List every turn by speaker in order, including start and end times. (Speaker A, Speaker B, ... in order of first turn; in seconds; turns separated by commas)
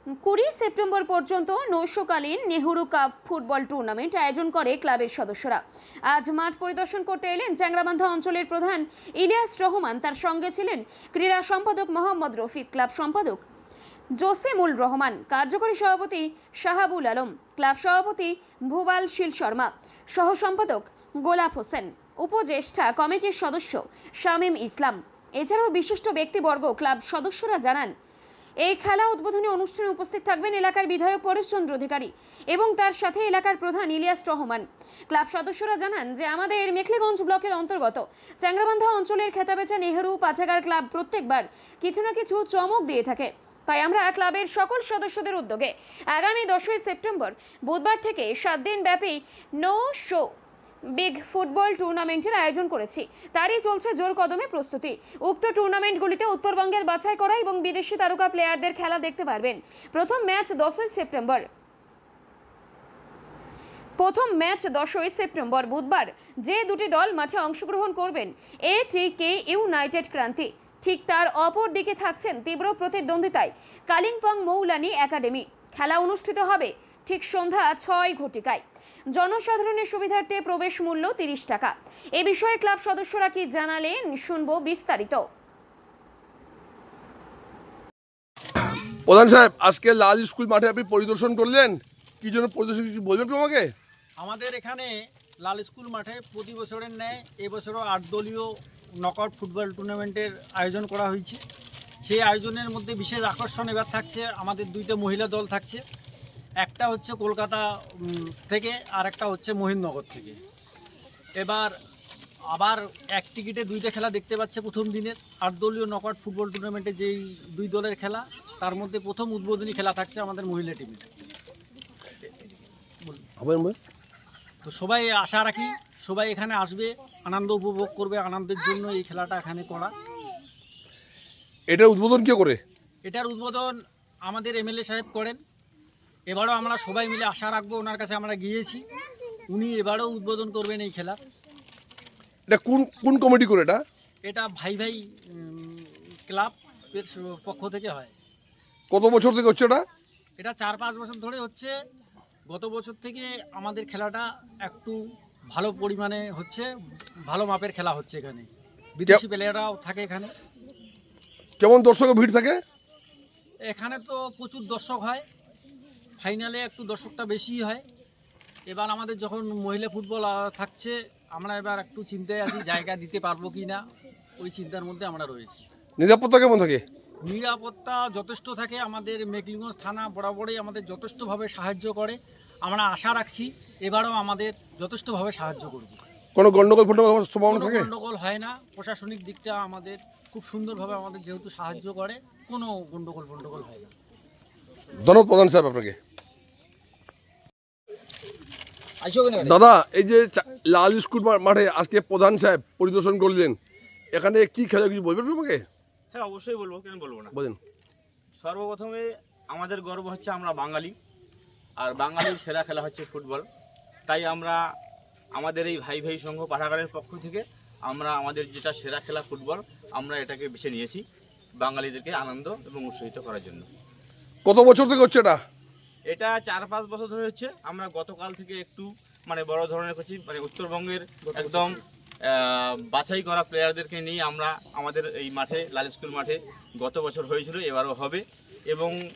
Speaker A: 0.2-13.4, Speaker A: 14.2-27.9, Speaker A: 28.6-50.3, Speaker A: 50.9-61.5, Speaker A: 64.0-78.6, Speaker A: 79.1-85.2, Speaker B: 89.1-93.7, Speaker C: 94.2-98.5, Speaker C: 99.0-101.4, Speaker C: 102.0-105.8, Speaker C: 106.6-110.4, Speaker C: 111.4-111.7, Speaker C: 112.5-121.0, Speaker B: 123.4-123.8, Speaker C: 124.6-129.9, Speaker B: 131.7-132.6, Speaker C: 133.0-133.7, Speaker C: 134.2-135.4, Speaker C: 136.3-138.8, Speaker C: 139.5-141.2, Speaker B: 142.5-143.8, Speaker C: 144.2-148.1, Speaker B: 148.9-149.8, Speaker C: 150.4-151.7, Speaker C: 152.5-155.0, Speaker C: 155.5-156.7, Speaker C: 157.3-160.3, Speaker B: 161.6-162.6, Speaker C: 163.7-165.2, Speaker C: 166.2-167.8, Speaker C: 168.7-173.8, Speaker C: 174.4-175.7, Speaker B: 176.0-176.8, Speaker C: 177.2-186.0, Speaker B: 186.3-187.9, Speaker C: 187.5-193.9, Speaker B: 195.0-196.0, Speaker D: 199.0-199.5, Speaker B: 199.4-203.6, Speaker B: 204.1-205.6, Speaker D: 206.1-207.3, Speaker B: 207.3-207.6, Speaker D: 208.4-210.9, Speaker D: 211.8-213.4, Speaker D: 214.1-214.6, Speaker D: 215.3-221.0, Speaker D: 221.6-223.7, Speaker B: 224.4-225.4, Speaker D: 226.1-238.9, Speaker C: 231.4-231.7